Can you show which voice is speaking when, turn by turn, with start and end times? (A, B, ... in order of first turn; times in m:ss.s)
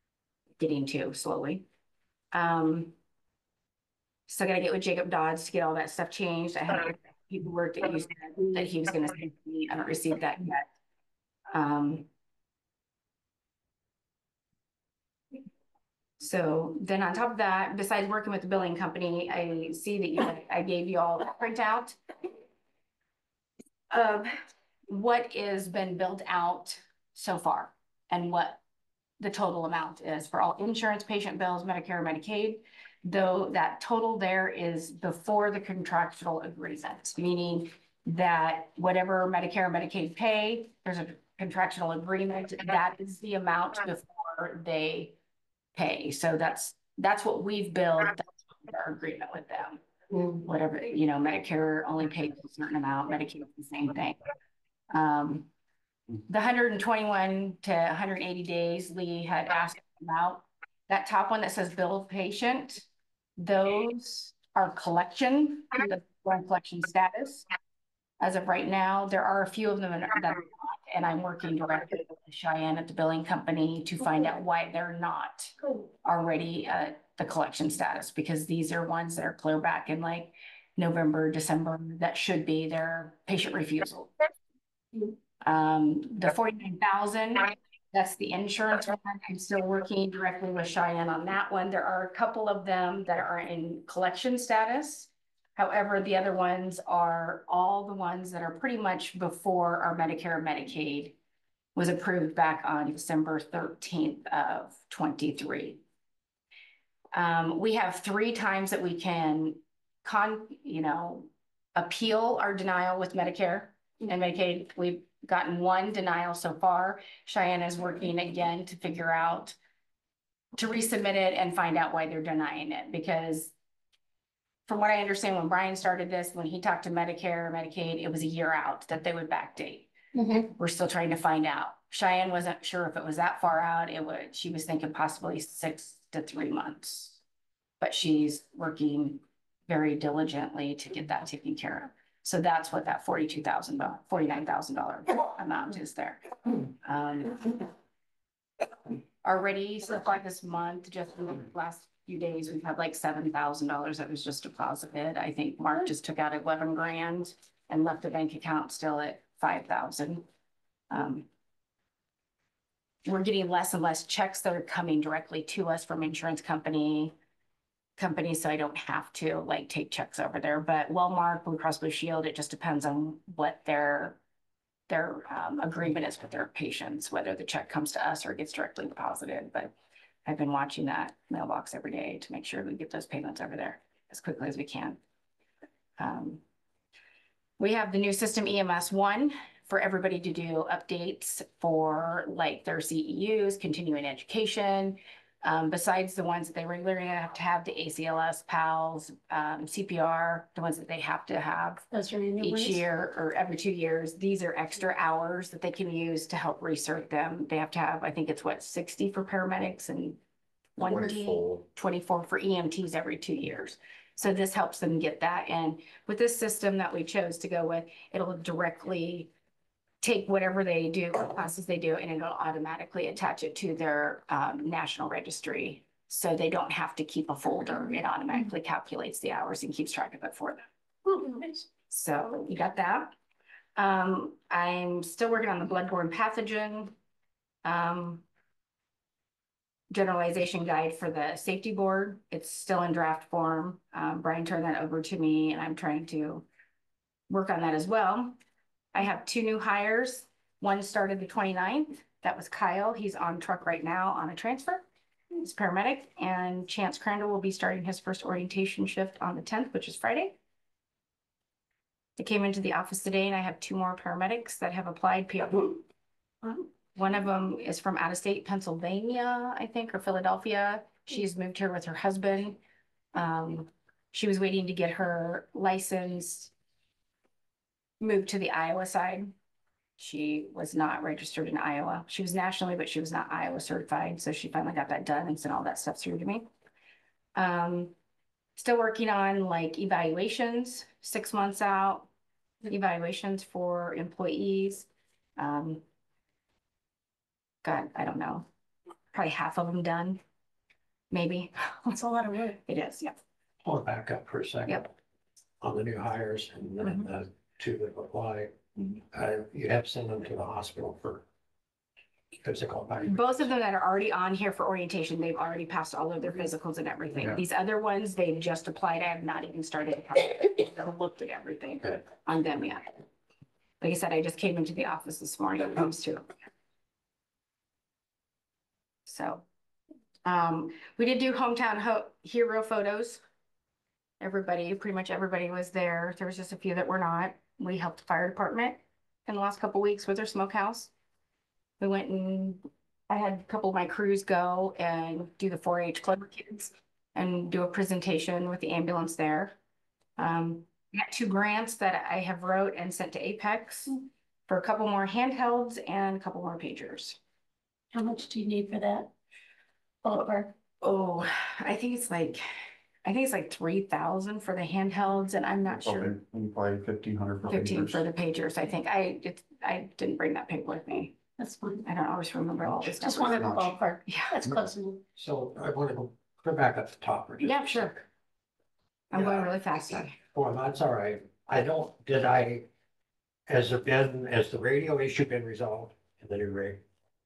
0:00.6-0:01.7 A
0:02.3-0:03.0 A
0:04.3-0:10.7 A
0:11.5-0:12.1 A
0:16.2-0:22.0 A
0:23.9-0:24.3 A
0:24.9-0:28.6 A
0:29.2-0:45.2 A
0:45.8-0:54.2 A
0:54.9-0:55.5 A
0:56.3-1:02.9 A
1:03.4-1:07.5 A
1:08.2-1:24.1 A
1:25.4-1:41.2 A
1:41.8-1:45.8 A
1:47.1-1:59.6 A
2:00.6-2:03.5 A
2:04.7-2:09.9 A
2:10.2-2:10.5 B
2:10.6-2:17.2 A
2:17.8-2:27.6 A
2:29.2-2:40.2 A
2:40.9-2:41.3 A
2:43.0-2:47.1 A
2:48.0-2:54.2 A
2:54.9-2:59.7 A
3:00.2-3:05.0 A
3:06.0-3:06.4 A
3:07.6-3:21.8 A
3:21.9-3:22.8 B
3:22.4-3:30.2 A
3:30.8-3:39.3 A
3:30.8-3:31.6 C
3:40.0-3:50.6 A
3:51.0-3:51.7 B
3:51.9-3:53.1 A
3:53.8-3:57.0 A
3:57.6-3:58.2 A
3:59.9-4:06.5 A
4:07.3-4:08.4 A
4:08.9-4:20.4 A
4:22.2-4:25.8 A
4:26.5-4:32.6 A
4:33.1-4:36.5 A
4:38.0-4:39.3 A
4:40.0-4:46.5 A
4:47.4-4:47.9 A
4:48.6-4:52.1 A
4:52.7-4:55.8 A
4:57.6-4:58.5 A
4:59.1-5:00.2 A
5:01.1-5:02.0 A
5:02.0-5:02.6 B
5:02.7-5:03.2 A
5:03.6-5:04.9 D
5:05.6-5:08.6 D
5:08.8-5:09.0 A
5:09.1-5:11.2 D
5:12.4-5:13.5 D
5:13.1-5:22.9 A
5:23.8-5:26.3 A
5:29.1-5:29.4 A
5:30.2-5:33.2 A
5:34.2-5:40.9 A
5:41.8-5:49.5 A
5:50.2-5:57.2 A
5:57.9-5:59.1 B
6:00.0-6:00.5 B
6:00.8-6:02.4 A
6:03.0-6:06.1 A
6:05.7-6:08.0 C
6:07.5-6:11.2 A
6:11.4-6:11.8 B
6:11.8-6:14.3 A
6:13.0-6:15.0 B
6:13.2-6:13.7 C
6:15.2-6:18.0 D
6:17.4-6:18.0 A
6:19.1-6:20.2 A
6:19.1-6:19.5 D
6:20.3-6:22.7 D
6:23.5-6:26.8 D